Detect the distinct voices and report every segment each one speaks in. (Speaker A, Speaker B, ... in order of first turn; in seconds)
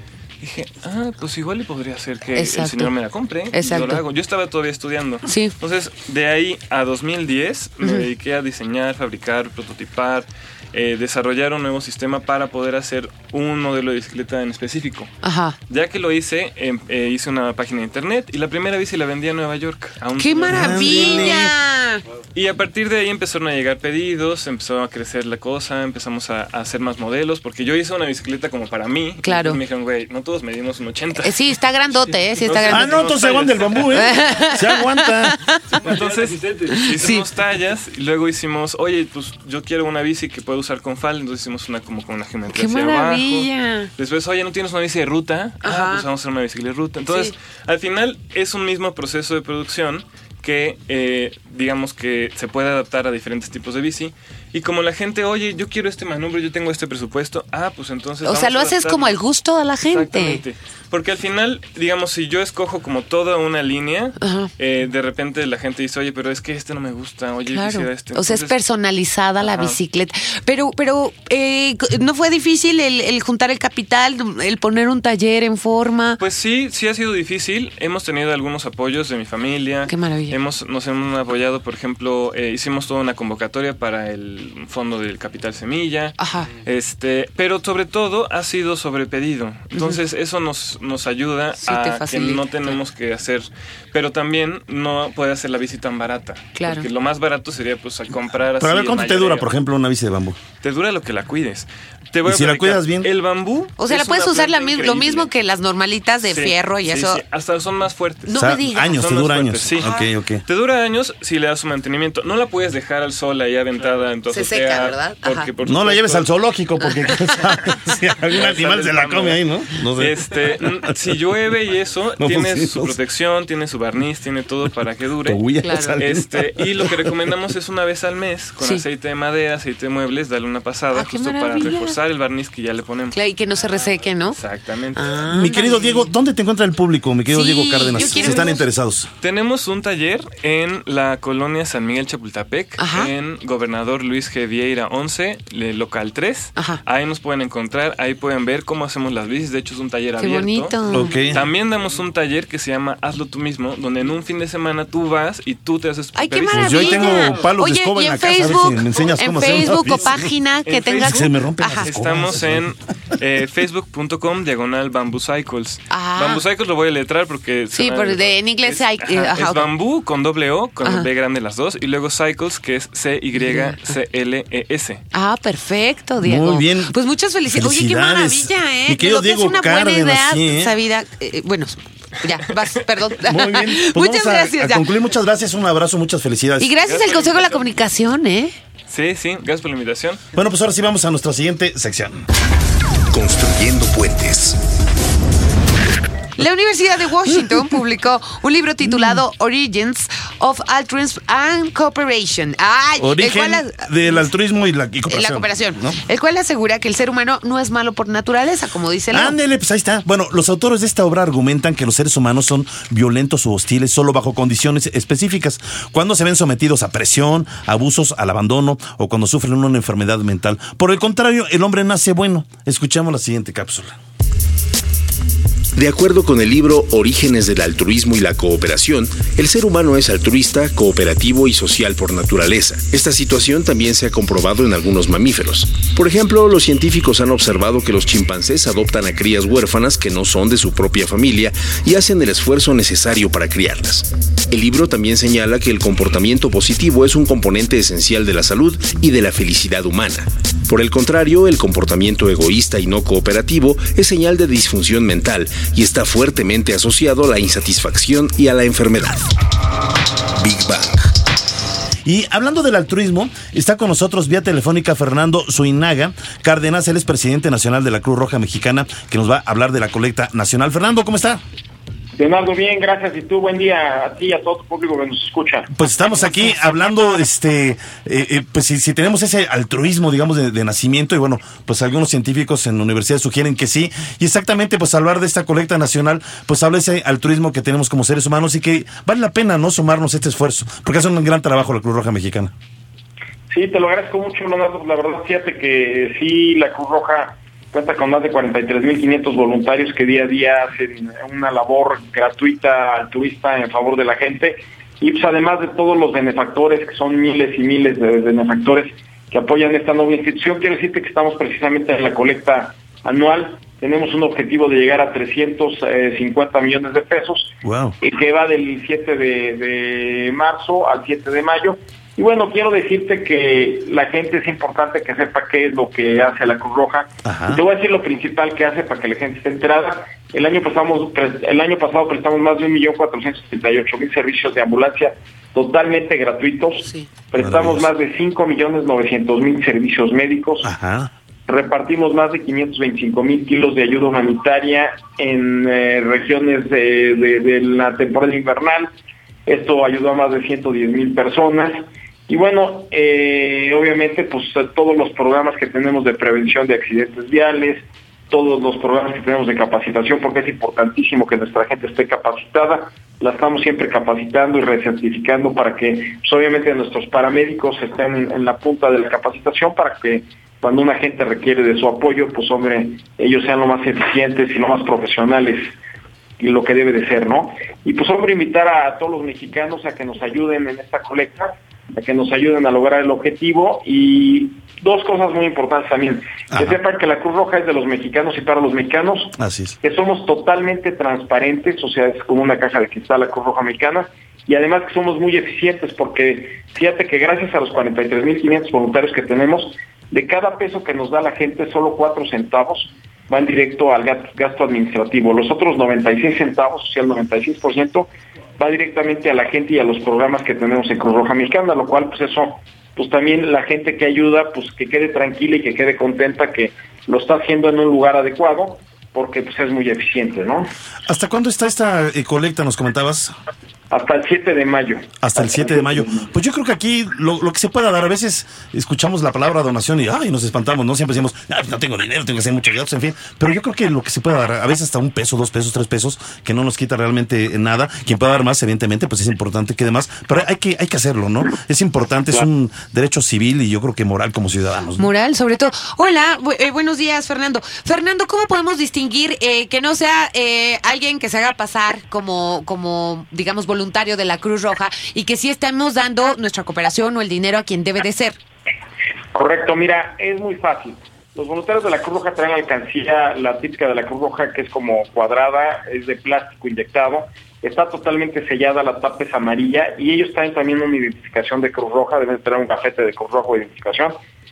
Speaker A: 0.4-15.1, 15.7-21.5, 22.3-31.6, 32.1-34.2, 35.7-59.2, 59.8-68.5, 69.4-69.8, 76.2-99.5, 100.6-105.3, 106.2-116.3, 118.3-119.4, 119.9-125.4, 126.0-135.1, 137.9-138.6, 139.2-157.5, 160.7-175.0, 186.8-187.7, 188.9-190.2
Speaker B: 2.3-2.9, 3.5-4.0, 5.2-5.5, 15.2-15.6, 20.2-22.0, 29.2-29.6, 31.2-33.0, 33.9-35.9, 36.7-37.2, 42.5-43.9, 45.6-46.0, 47.1-47.3, 58.2-60.4, 64.2-64.5, 67.5-76.2, 79.9-80.4, 86.2-86.5, 91.6-92.8, 96.5-96.9, 103.8-107.2, 108.3-109.0, 109.8-110.1, 114.3-115.5, 125.6-126.0, 130.9-131.9, 133.1-134.4, 134.9-136.1, 137.3-138.6, 142.8-143.1, 150.2-151.1, 156.1-161.9, 165.9-166.4, 167.7-169.7, 173.4-173.9, 175.1-184.9, 186.6-188.5, 196.4-204.2, 205.1-209.3, 445.0-458.4
Speaker C: 20.5-21.5, 32.7-35.4, 98.6-100.4, 102.2-103.1, 108.3-110.4, 115.6-120.7, 122.2-123.0, 125.2-127.1, 135.3-139.1, 150.9-151.4, 156.5-160.3, 161.0-162.7, 176.2-176.9, 177.4-180.7, 183.2-186.7, 190.3-192.2, 198.8-199.2, 203.0-206.0, 209.1-224.0, 262.0-271.4, 275.7-292.5, 317.6-317.9, 327.2-327.6, 337.4-337.9, 340.6-341.1, 389.4-389.8, 421.1-423.3, 425.2-445.1
Speaker D: 193.1-194.6, 225.8-259.3, 260.4-261.0
Speaker E: 272.1-275.7, 293.5-340.7, 341.5-348.9, 349.5-375.7, 376.4-408.1, 408.6-420.7, 423.9-426.3, 459.3-474.1